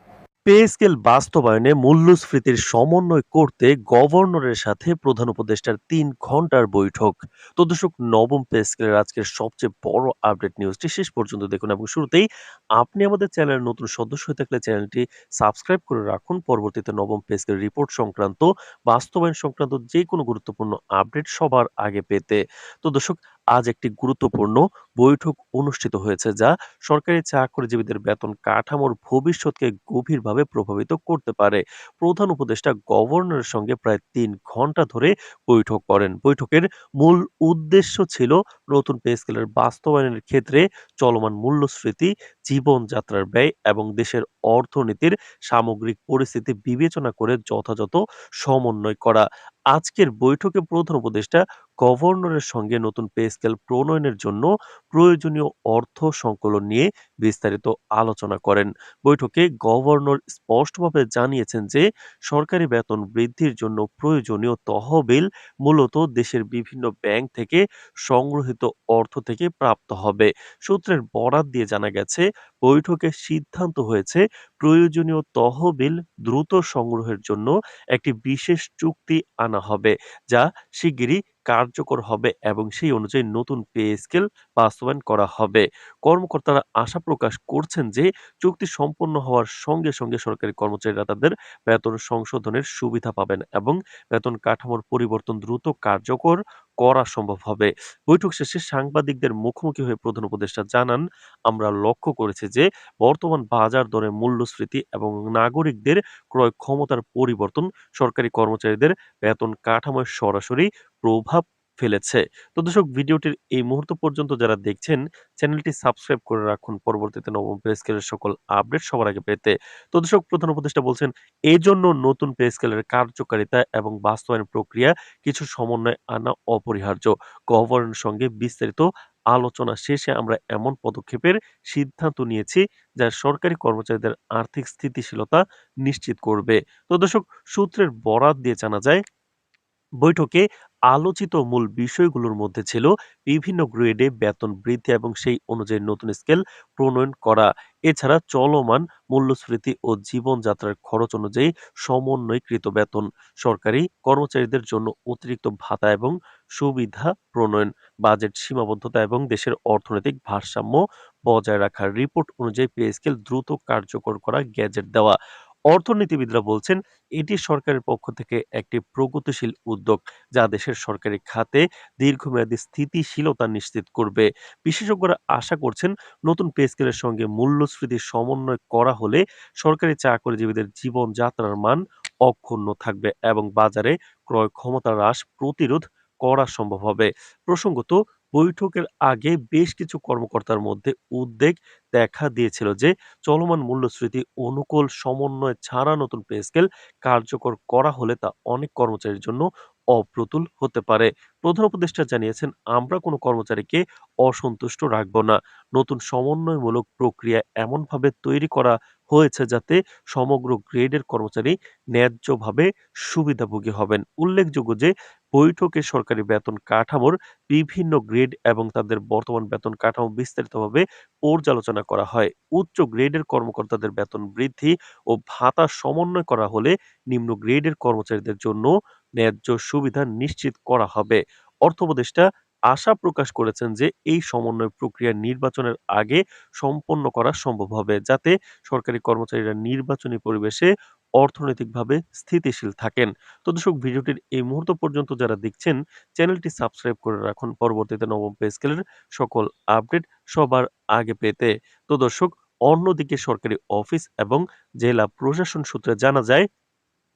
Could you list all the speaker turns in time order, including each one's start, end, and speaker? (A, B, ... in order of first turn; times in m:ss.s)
0:00.5-2:19.0 A
2:20.0-2:45.2 A
2:45.7-4:00.7 A
4:01.2-4:16.4 A